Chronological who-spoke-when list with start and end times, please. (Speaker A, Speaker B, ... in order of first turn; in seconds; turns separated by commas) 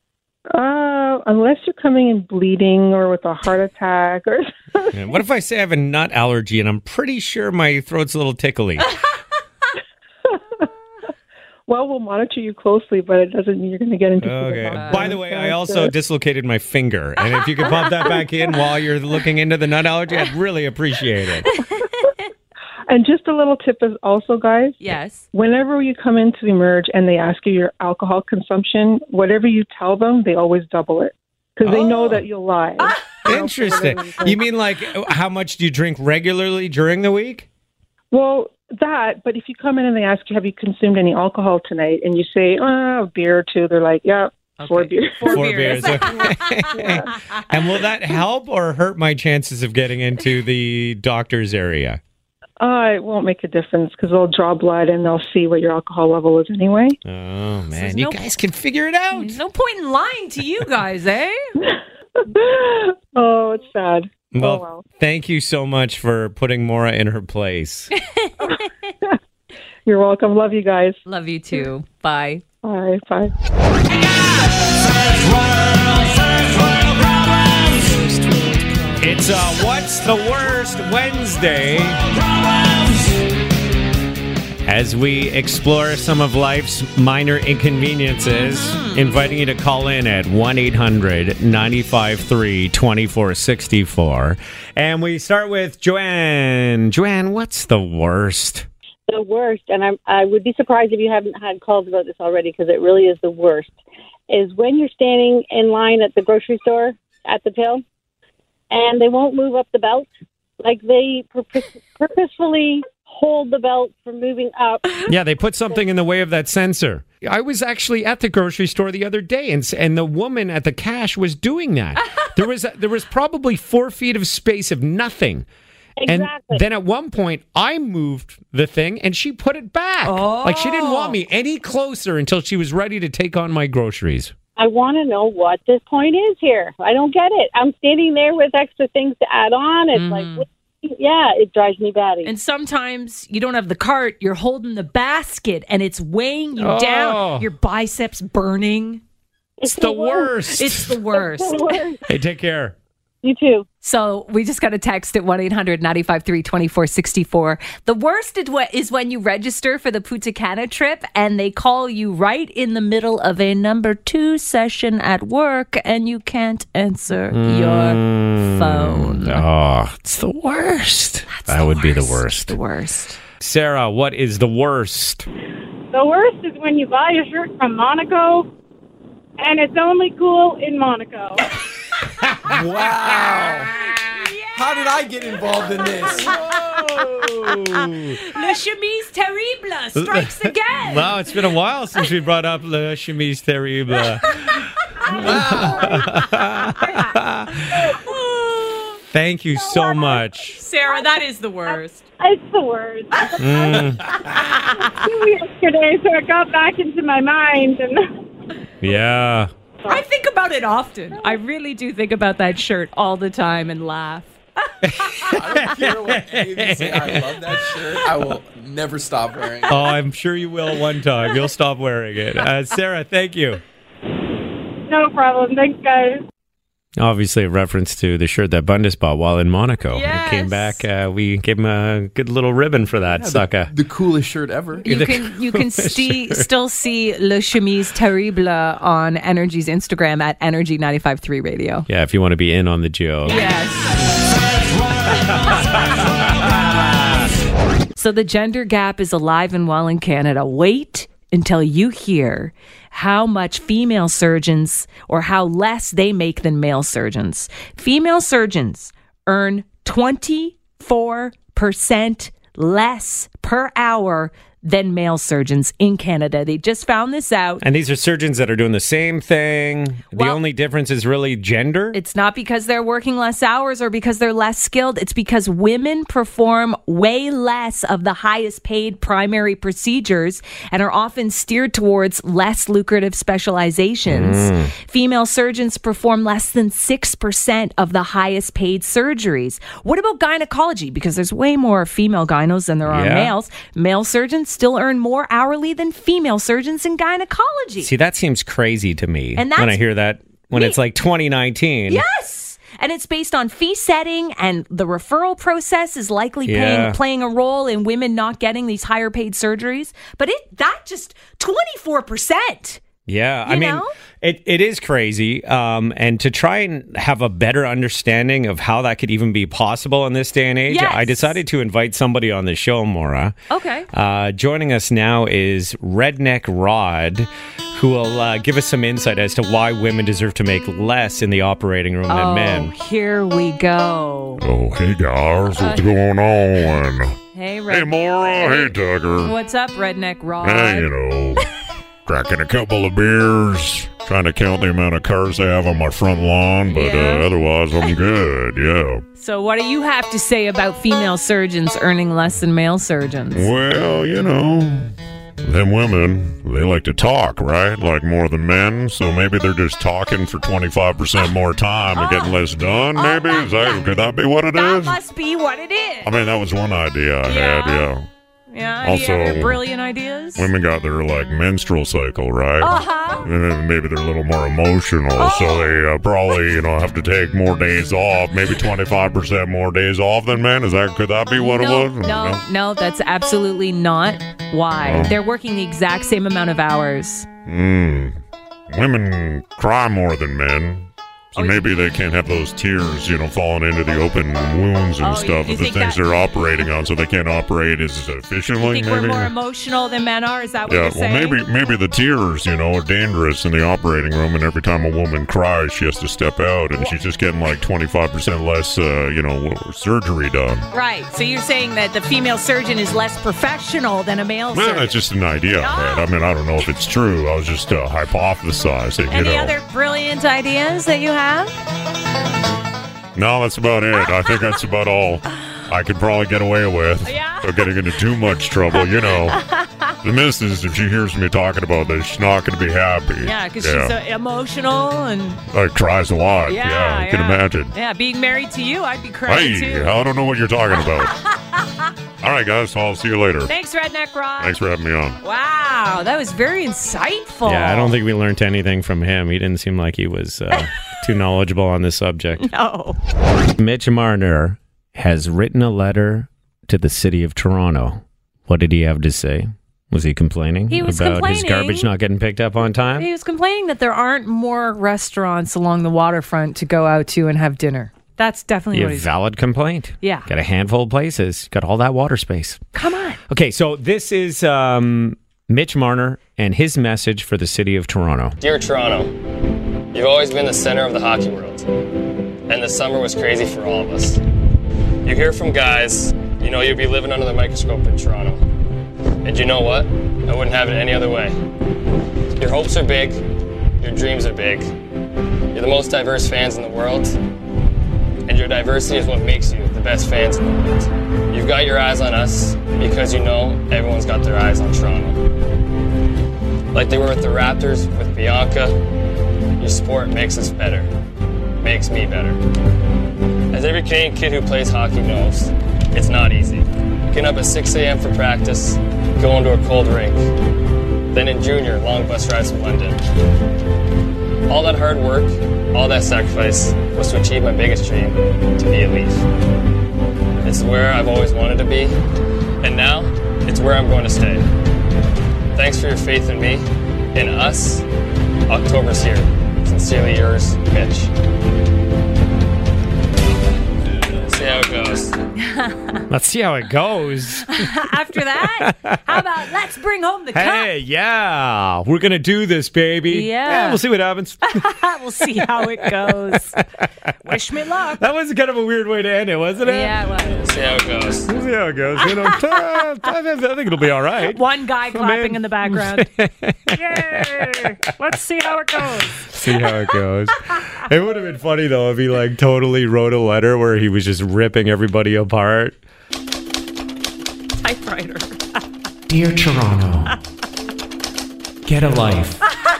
Speaker A: 0.5-5.0, Speaker B: 4.9-8.9, Speaker A: 10.3-10.7, Speaker A: 11.7-15.9, Speaker B: 14.2-21.5, Speaker C: 14.7-15.2, Speaker A: 22.9-34.4, Speaker C: 24.8-25.3, Speaker B: 31.6-32.2, Speaker B: 33.2-37.5, Speaker A: 38.1-47.0, Speaker C: 44.6-47.1, Speaker B: 45.3-52.0, Speaker A: 52.6-57.0, Speaker B: 57.0-59.4, Speaker C: 57.8-58.3, Speaker C: 59.1-61.4, Speaker A: 61.6-64.8, Speaker B: 64.3-67.9, Speaker C: 68.1-68.7, Speaker A: 69.9-71.0, Speaker C: 71.1-72.4, Speaker A: 72.6-73.3, Speaker C: 76.2-79.2, Speaker B: 76.8-77.7, Speaker B: 79.0-82.0, Speaker B: 84.7-98.7, Speaker C: 88.2-89.2, Speaker D: 99.1-103.8, Speaker D: 104.3-107.8, Speaker D: 108.7-110.1, Speaker D: 110.6-115.0, Speaker B: 115.1-125.5, Speaker D: 126.0-126.6, Speaker B: 126.1-134.3, Speaker C: 130.0-131.2, Speaker D: 134.6-142.3, Speaker C: 139.9-140.4, Speaker C: 142.2-149.0, Speaker B: 146.6-147.5, Speaker B: 149.6-151.0, Speaker D: 149.6-150.3, Speaker C: 150.5-151.8, Speaker D: 151.5-152.0, Speaker B: 152.1-152.8, Speaker D: 153.2-153.7, Speaker C: 153.8-169.4, Speaker B: 167.3-172.6, Speaker C: 171.3-173.2, Speaker B: 173.4-175.3, Speaker E: 175.9-178.5, Speaker E: 179.4-181.4, Speaker B: 182.2-184.2, Speaker F: 182.8-183.7, Speaker C: 183.9-187.5, Speaker F: 184.6-186.3, Speaker B: 185.3-188.3, Speaker C: 188.2-191.3, Speaker B: 189.9-197.9, Speaker C: 195.0-196.2, Speaker F: 195.4-195.8, Speaker C: 198.0-199.0, Speaker B: 199.1-200.6, Speaker E: 199.8-200.1, Speaker C: 200.6-202.1, Speaker E: 201.7-208.0, Speaker C: 203.3-204.9, Speaker B: 203.4-204.3, Speaker B: 208.8-209.5, Speaker C: 209.9-214.4, Speaker B: 214.8-217.5, Speaker C: 215.0-215.3, Speaker F: 215.3-219.9, Speaker B: 219.7-223.6, Speaker E: 224.9-226.2, Speaker B: 227.0-233.7, Speaker C: 229.9-230.8, Speaker F: 233.2-234.8, Speaker C: 234.8-241.9, Speaker B: 234.8-236.5, Speaker B: 241.9-243.4, Speaker C: 243.3-244.1, Speaker B: 245.1-247.3, Speaker C: 245.1-246.1, Speaker C: 247.9-267.6, Speaker B: 267.6-272.0, Speaker C: 270.1-270.4, Speaker C: 271.9-297.9, Speaker B: 284.1-284.7, Speaker B: 292.9-293.3, Speaker B: 297.8-302.0, Speaker C: 299.4-299.8, Speaker C: 301.9-312.8, Speaker B: 306.4-307.0, Speaker B: 313.1-323.4, Speaker C: 313.4-313.9, Speaker C: 320.7-321.4, Speaker C: 323.5-323.9, Speaker B: 323.9-332.7, Speaker C: 332.1-334.4, Speaker G: 334.4-337.2, Speaker C: 335.6-335.9, Speaker C: 337.3-340.9, Speaker G: 337.7-339.4, Speaker G: 340.4-341.5, Speaker G: 342.1-349.1, Speaker C: 346.7-347.3, Speaker C: 349.2-353.5, Speaker G: 353.3-354.9, Speaker G: 355.4-365.0, Speaker C: 361.9-362.4, Speaker C: 362.9-364.0, Speaker C: 364.5-366.1, Speaker G: 366.0-368.1, Speaker C: 367.2-367.9, Speaker C: 368.5-370.5, Speaker G: 368.8-369.6, Speaker G: 370.4-382.4, Speaker C: 372.6-373.3, Speaker C: 375.2-375.8, Speaker C: 381.4-387.3, Speaker G: 384.8-385.2, Speaker G: 387.5-388.2, Speaker G: 388.7-399.3, Speaker C: 391.4-391.7, Speaker C: 395.0-396.7, Speaker C: 398.6-401.4, Speaker G: 400.7-410.7, Speaker C: 410.7-415.0, Speaker G: 414.5-419.6, Speaker C: 415.6-416.1, Speaker C: 419.1-421.6, Speaker G: 423.2-429.4, Speaker C: 427.1-427.5, Speaker C: 428.8-429.9, Speaker G: 430.0-433.9, Speaker C: 433.2-435.4, Speaker G: 435.5-437.7, Speaker C: 436.5-439.9, Speaker G: 439.3-441.1, Speaker C: 441.1-441.6, Speaker G: 442.2-443.5, Speaker C: 443.5-444.6, Speaker G: 444.4-445.2, Speaker C: 445.2-448.0, Speaker B: 447.4-452.5, Speaker C: 452.4-453.0, Speaker B: 453.6-463.1, Speaker C: 460.7-461.9, Speaker C: 462.9-469.1, Speaker B: 468.7-472.6, Speaker C: 470.0-470.3, Speaker C: 472.7-473.2, Speaker B: 473.3-478.4, Speaker H: 478.4-479.1, Speaker H: 479.9-481.7, Speaker H: 482.5-484.2, Speaker H: 485.1-488.4, Speaker H: 489.2-491.4, Speaker H: 492.4-493.2, Speaker H: 493.8-494.7, Speaker H: 495.5-497.2, Speaker H: 498.3-505.2, Speaker H: 506.7-508.8, Speaker H: 509.6-510.9, Speaker H: 511.6-512.4, Speaker H: 513.5-520.2, Speaker H: 521.1-523.0, Speaker H: 524.5-529.2, Speaker H: 530.4-532.0, Speaker H: 532.6-534.5, Speaker H: 535.5-537.9, Speaker H: 538.5-541.1, Speaker H: 544.2-545.2, Speaker C: 545.5-546.0, Speaker B: 546.1-547.7, Speaker C: 547.5-550.7, Speaker B: 548.4-549.1, Speaker B: 550.3-554.6, Speaker C: 553.1-553.8, Speaker C: 554.5-556.6, Speaker B: 555.4-556.4, Speaker C: 557.2-558.0, Speaker B: 558.0-559.9, Speaker C: 559.7-560.5, Speaker H: 560.4-561.3, Speaker B: 561.3-567.7, Speaker C: 564.3-566.1, Speaker C: 566.7-569.7, Speaker B: 569.2-575.8, Speaker C: 577.6-578.5, Speaker B: 579.1-580.1, Speaker B: 581.6-582.4